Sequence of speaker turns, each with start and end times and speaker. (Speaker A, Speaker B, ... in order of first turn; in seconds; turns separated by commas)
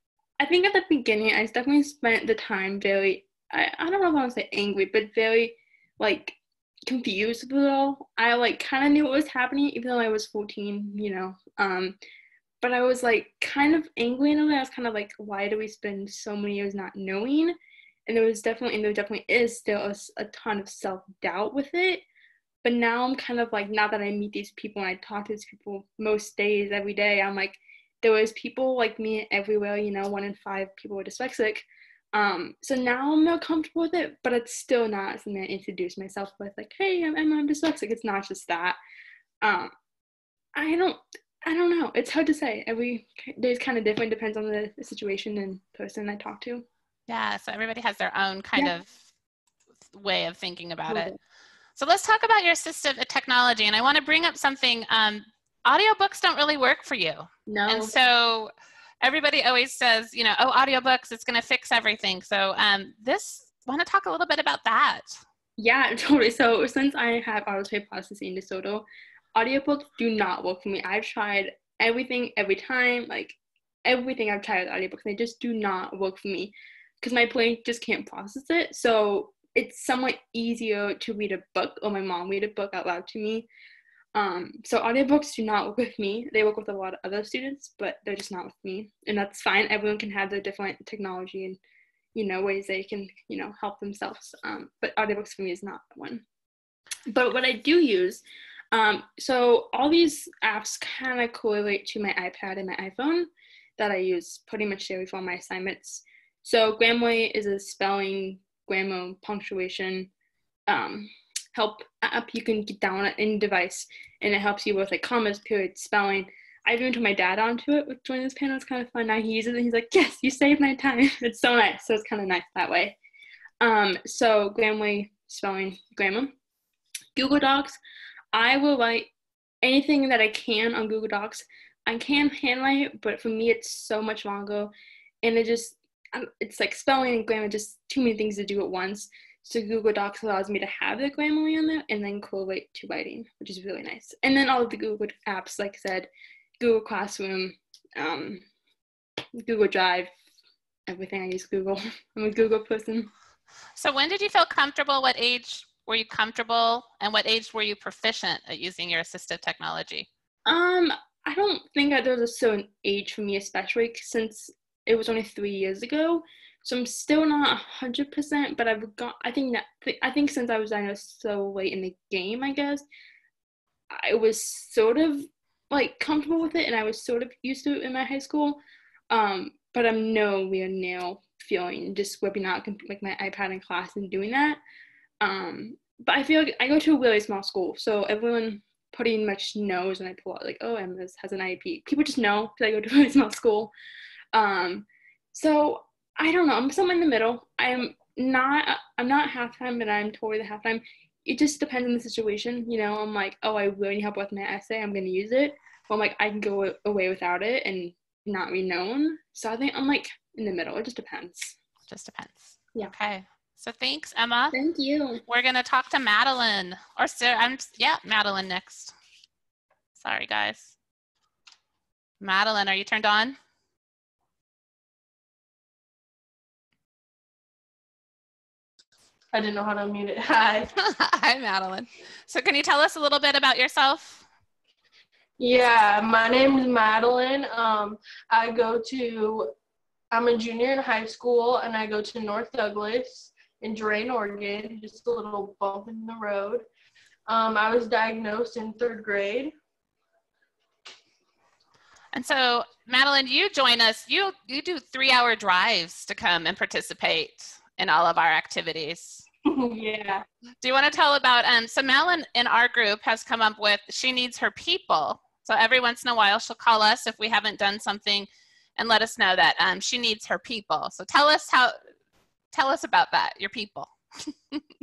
Speaker A: 0.4-11.9, Speaker A: 12.6-22.0, Speaker A: 22.6-38.8, Speaker A: 39.4-39.7, Speaker A: 40.6-46.6, Speaker B: 47.1-49.0, Speaker B: 49.9-51.1, Speaker A: 50.9-51.1, Speaker B: 51.8-58.5, Speaker A: 57.5-57.9, Speaker B: 59.0-65.2, Speaker A: 65.6-83.5, Speaker A: 84.1-91.6, Speaker A: 92.1-96.2, Speaker A: 97.1-110.1, Speaker A: 110.7-123.0, Speaker A: 123.6-126.3, Speaker A: 127.1-127.8, Speaker A: 128.3-129.1, Speaker A: 129.6-146.1, Speaker A: 146.6-148.4, Speaker A: 149.4-150.1, Speaker A: 150.9-153.1, Speaker B: 153.8-160.1, Speaker A: 160.4-172.8, Speaker A: 173.9-184.6, Speaker A: 185.2-193.7, Speaker A: 194.3-211.6, Speaker B: 211.9-214.6, Speaker A: 214.5-215.2, Speaker B: 215.2-218.9, Speaker B: 220.0-220.7, Speaker B: 222.2-223.4, Speaker C: 229.3-230.7, Speaker B: 230.8-234.2, Speaker C: 235.4-239.5, Speaker C: 240.1-246.6, Speaker C: 247.3-249.5, Speaker B: 252.1-259.2, Speaker C: 259.5-260.2, Speaker B: 260.6-271.8, Speaker B: 272.5-273.9